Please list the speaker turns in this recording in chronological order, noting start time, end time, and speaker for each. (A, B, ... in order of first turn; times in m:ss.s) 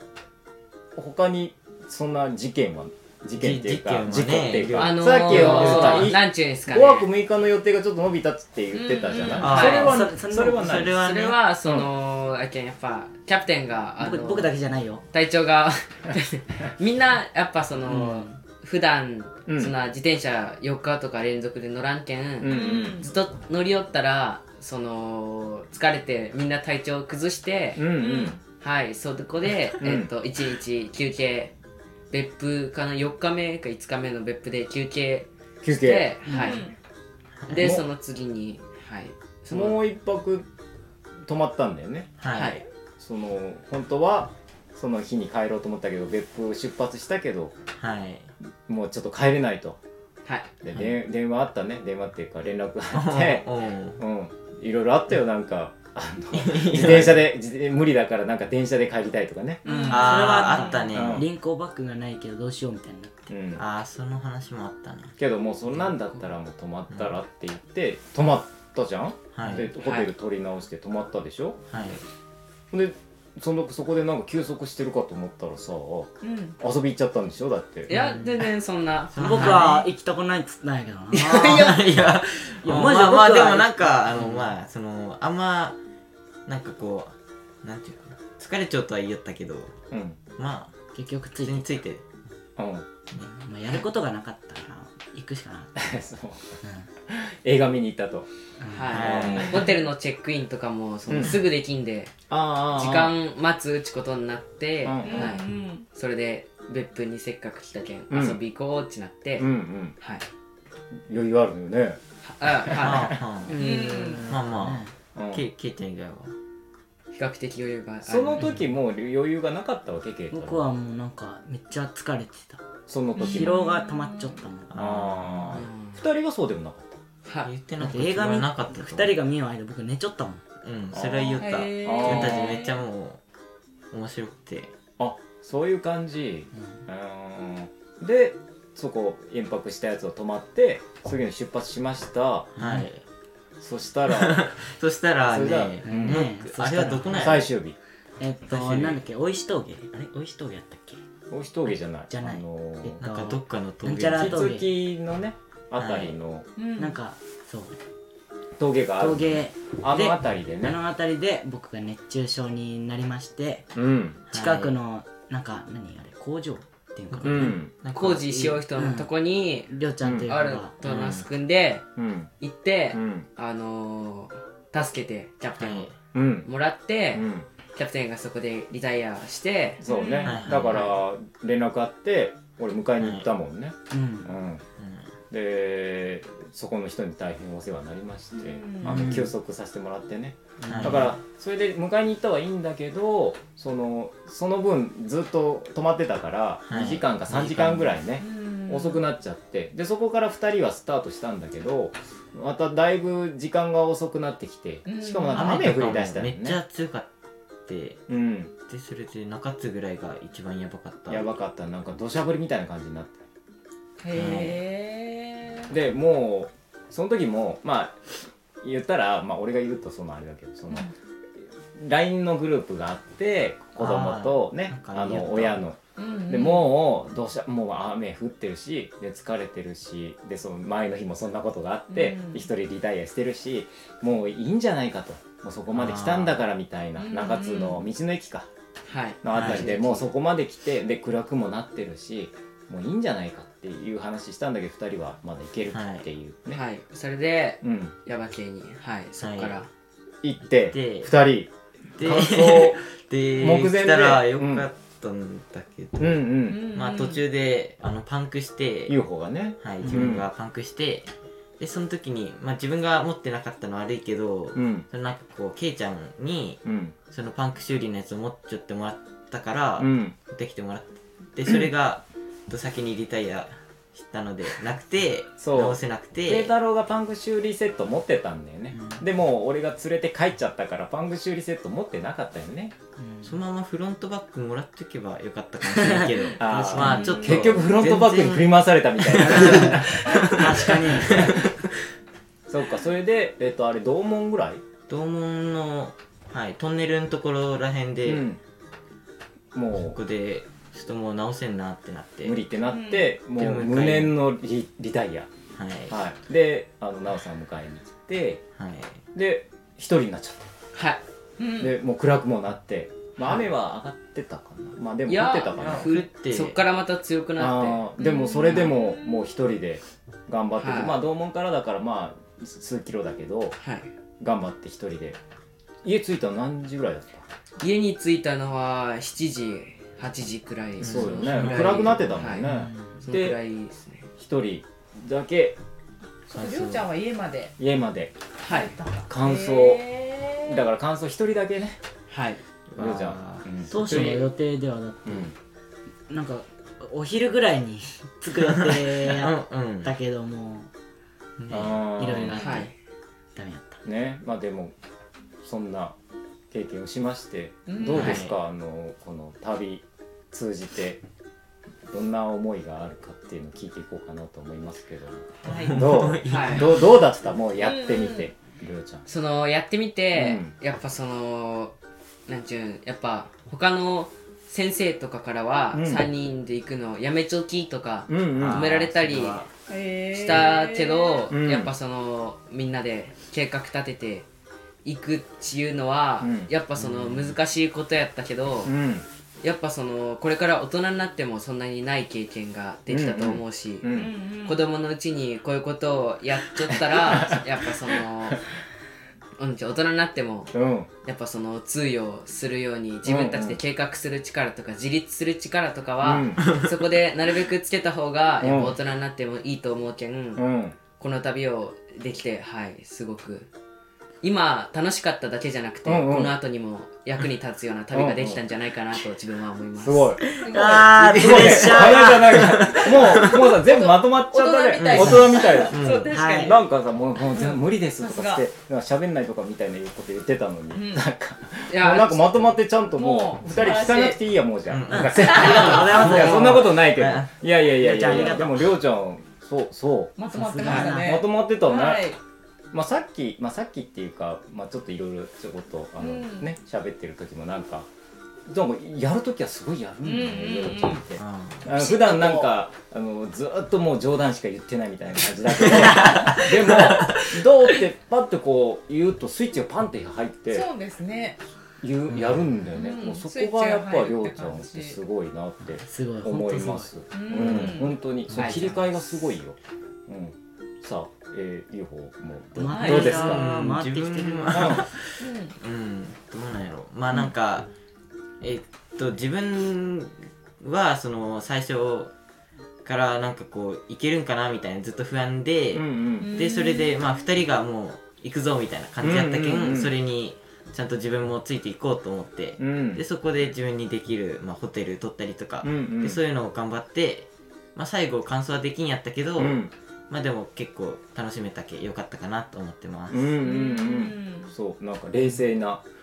0:01.0-0:11.0 A
0:03.4-0:06.2 B
0:04.8-0:07.1 C
0:08.7-0:09.6 D
0:09.4-0:10.0 C
0:09.4-0:10.0 B
0:09.6-0:11.4 E
0:11.0-0:14.5 C
0:14.0-0:15.0 E
0:15.1-0:27.9 C
0:17.9-0:18.3 E
0:19.5-0:19.7 A
0:22.4-0:23.1 A
0:22.4-0:23.1 D
0:27.8-0:28.4 A
0:28.0-0:28.4 D
0:28.6-0:31.5 C
0:29.8-0:30.1 A
0:32.1-0:36.7 C
0:35.6-0:36.1 A
0:36.3-0:36.6 E
0:36.3-0:36.8 D
0:37.5-0:39.8 C
0:37.5-0:37.8 A
0:39.5-0:40.5 A
0:41.2-0:42.2 A
0:42.2-0:42.6 B
0:42.3-0:42.6 C
0:43.0-0:47.6 A
0:47.8-0:48.3 B
0:48.7-0:49.8 A
0:50.2-0:50.5 C
0:50.6-0:59.9 A
0:52.9-0:54.0 B
0:56.3-0:57.3 B
0:59.6-1:00.9 D
0:59.7-1:03.3 E
0:59.9-1:01.3 B
1:00.9-1:01.3 A
1:03.3-1:03.6 A
1:03.6-1:05.2 B
1:05.2-1:11.6 A
1:09.3-1:09.7 B
1:09.8-1:10.1 C
1:11.7-1:12.0 B
1:12.7-1:17.9 A
1:16.2-1:16.6 D
1:17.9-1:19.8 C
1:17.9-1:18.3 E
1:19.1-1:19.9 B
1:19.2-1:22.0 E
1:21.1-1:25.8 B
1:21.4-1:21.7 C
1:22.6-1:24.4 E
1:26.5-1:29.8 B
1:29.9-1:30.2 A
1:30.4-1:30.7 B
1:30.9-1:31.7 E
1:31.4-1:32.0 B
1:32.6-1:32.9 A
1:33.2-1:35.8 E
1:35.8-1:38.3 A
1:38.6-1:39.0 E
1:38.7-1:42.1 C
1:38.9-1:39.7 B
1:38.9-1:39.7 A
1:41.1-1:41.4 A
1:42.3-1:43.2 A
1:42.7-1:49.5 C
1:44.8-1:45.4 A
1:45.0-1:45.9 D
1:48.1-1:48.4 A
1:49.4-1:50.0 A
1:50.0-1:50.2 C
1:51.1-1:53.2 A
1:52.2-1:53.2 C
1:52.8-1:56.3 B
1:53.5-1:54.9 E
1:53.6-1:54.3 D
1:55.2-1:55.5 A
1:57.1-1:58.6 C
1:58.0-2:00.7 A
2:00.3-2:02.6 E
2:02.9-2:03.6 A
2:03.2-2:04.7 E
2:03.2-2:04.4 D
2:04.7-2:05.6 B
2:04.7-2:07.0 A
2:05.5-2:06.0 C
2:07.2-2:07.5 C
2:07.4-2:09.2 B
2:07.8-2:10.4 E
2:10.6-2:13.2 B
2:10.9-2:12.5 A
2:11.4-2:12.8 D
2:13.9-2:14.7 B
2:15.0-2:22.5 A
2:22.6-2:22.9 E
2:22.6-2:23.0 B
2:23.6-2:24.5 A
2:24.1-2:27.5 B
2:25.3-2:26.3 A
2:25.8-2:27.5 E
2:27.1-2:27.8 A
2:28.2-2:31.0 E
2:28.5-2:29.0 B
2:31.3-2:33.0 A
2:32.1-2:34.7 E
2:33.0-2:34.5 B
2:34.1-2:36.5 A
2:35.8-2:36.2 B
2:36.6-2:37.0 D
2:36.8-2:37.8 E
2:38.6-2:40.8 A
2:39.0-2:43.7 E
2:43.7-2:44.2 A
2:44.3-2:47.6 E
2:44.3-2:44.8 B
2:47.1-2:48.6 B
2:47.2-2:47.7 A
2:47.9-2:49.7 C
2:48.7-2:49.1 E
2:49.7-2:50.7 E
2:50.0-2:50.3 A
2:50.3-2:51.8 C
2:50.8-2:51.3 B
2:52.0-2:52.3 A
2:52.4-2:55.9 C
2:52.9-2:53.3 A
2:55.6-2:55.9 B
2:56.1-2:56.5 A
2:56.4-2:59.8 C
2:57.1-2:57.5 A
2:59.8-3:04.6 A
2:59.8-3:00.4 D
3:00.2-3:00.9 B
3:03.0-3:03.3 B
3:03.9-3:04.3 E
3:04.8-3:05.1 B
3:05.3-3:26.6 A
3:08.3-3:09.1 D
3:08.8-3:09.3 E
3:10.6-3:11.1 E
3:10.7-3:11.2 B
3:16.7-3:18.0 B
3:18.2-3:19.0 D
3:24.8-3:25.6 D
3:25.3-3:27.1 B
3:27.7-3:28.0 B
3:28.1-3:28.5 A
3:28.7-3:31.2 B
3:31.1-3:33.2 A
3:34.0-3:35.7 D
3:34.1-3:34.6 B
3:35.7-3:40.9 A
3:41.8-3:58.5 A
3:43.8-3:45.6 B
3:46.0-3:46.8 D
3:51.9-3:52.5 D
3:55.7-3:56.4 B
3:57.0-3:57.8 D
3:58.9-4:00.1 C
3:59.2-4:06.6 A
3:59.3-3:59.8 B
4:05.7-4:06.1 B
4:06.5-4:09.7 C
4:07.6-4:08.0 A
4:09.2-4:09.6 B
4:10.2-4:12.8 A
4:10.6-4:11.1 B
4:12.0-4:19.0 B
4:13.4-4:14.7 A
4:16.0-4:16.6 A
4:16.5-4:17.2 D
4:18.9-4:20.3 A
4:19.6-4:36.5 B
4:19.8-4:20.1 E
4:24.6-4:24.8 A
4:26.6-4:27.0 A
4:29.8-4:30.2 A
4:35.4-4:42.8 A
4:43.0-4:43.4 E
4:43.2-4:51.6 B
4:45.7-4:47.4 E
4:46.4-4:51.5 A
4:46.8-4:47.5 D
4:49.3-4:51.4 E
4:52.5-4:54.6 A
4:54.9-4:58.3 B
4:58.0-4:58.4 A
4:59.5-5:00.0 A
4:59.9-5:02.4 B
5:02.2-5:05.3 A
5:02.7-5:03.2 D
5:03.3-5:04.2 B
5:05.6-5:06.0 B
5:05.9-5:08.4 A
5:08.6-5:09.0 B
5:09.1-5:10.5 A
5:10.7-5:11.0 C
5:11.4-5:11.7 D
5:11.6-5:15.9 A
5:15.1-5:17.9 C
5:15.6-5:16.6 B
5:17.4-5:23.6 A
5:18.0-5:19.2 D
5:18.5-5:18.7 C
5:20.6-5:21.0 C
5:23.6-5:23.9 C
5:24.2-5:25.2 A
5:25.8-5:27.3 A
5:27.6-5:32.5 C
5:30.8-5:31.9 B
5:30.8-5:33.4 A
5:32.4-5:33.0 E
5:33.0-5:34.1 C
5:34.2-5:35.6 A
5:36.3-5:37.6 D
5:36.3-5:36.9 B
5:37.6-5:38.2 A
5:38.4-5:38.7 C
5:38.5-5:40.6 D
5:39.1-5:41.8 A
5:42.1-5:42.4 C
5:42.8-5:44.2 B
5:42.8-5:44.3 A
5:43.7-5:45.3 E
5:45.1-5:45.3 A
5:46.1-5:50.7 E
5:48.4-5:49.9 B
5:51.4-5:52.4 B
5:51.5-5:52.4 A
5:51.9-5:52.7 E
5:52.4-5:52.7 C
5:53.4-5:53.8 E
5:53.8-5:54.7 A
5:55.4-5:56.0 A
5:56.5-6:01.0 A
5:57.7-5:58.2 D
5:57.9-5:58.4 B
6:01.9-6:09.1 A
6:05.4-6:05.9 D
6:05.5-6:06.9 B
6:06.2-6:06.8 C
6:07.6-6:08.3 D
6:09.1-6:11.8 C
6:10.1-6:10.5 A
6:12.3-6:19.5 C
6:15.7-6:16.1 A
6:18.1-6:18.7 A
6:18.4-6:19.5 B
6:19.7-6:21.3 D
6:20.1-6:24.3 C
6:21.3-6:21.7 A
6:24.8-6:28.8 C
6:26.2-6:26.5 A
6:26.8-6:27.4 B
6:28.6-6:29.0 A
6:29.4-6:38.4 C
6:32.9-6:34.1 A
6:33.9-6:34.6 D
6:36.7-6:37.5 A
6:39.4-6:50.5 C
6:40.5-6:40.9 A
6:43.0-6:43.6 A
6:46.0-6:46.5 A
6:48.4-6:48.8 A
6:50.4-6:50.8 A
6:51.0-6:53.5 C
6:54.2-7:00.1 C
6:55.8-6:56.3 A
6:57.9-6:58.4 A
6:59.8-7:22.0 A
7:00.3-7:02.6 E
7:00.3-7:01.1 D
7:01.0-7:03.4 B
7:02.7-7:06.7 D
7:04.7-7:06.2 B
7:06.1-7:06.6 E
7:07.2-7:08.4 D
7:10.7-7:11.1 D
7:11.7-7:12.5 C
7:12.9-7:14.2 D
7:14.7-7:17.3 B
7:14.9-7:16.7 E
7:15.2-7:15.7 D
7:16.0-7:16.6 C
7:17.8-7:18.8 E
7:18.1-7:18.4 B
7:20.2-7:22.2 D
7:20.3-7:21.2 E
7:22.7-7:27.9 A
7:26.0-7:26.5 D
7:28.5-7:40.7 A
7:30.0-7:31.1 D
7:31.2-7:31.7 B
7:31.6-7:32.5 D
7:35.6-7:37.3 B
7:40.5-7:41.4 D
7:41.8-7:53.5 A
7:42.1-7:42.4 E
7:42.7-7:45.0 D
7:45.7-7:46.9 E
7:47.1-7:48.0 D
7:48.3-7:48.6 E
7:48.3-7:48.8 C
7:52.6-7:54.9 E
7:52.7-7:53.4 D
7:52.9-7:57.7 B
7:54.5-7:54.9 A
7:55.2-7:55.6 D
7:58.4-8:02.1 B
8:02.8-8:23.4 B
8:05.7-8:06.3 A
8:06.2-8:07.2 D
8:09.0-8:10.0 A
8:12.6-8:13.0 A
8:15.6-8:16.2 A
8:19.4-8:19.7 A
8:23.1-8:25.8 A
8:23.4-8:24.5 D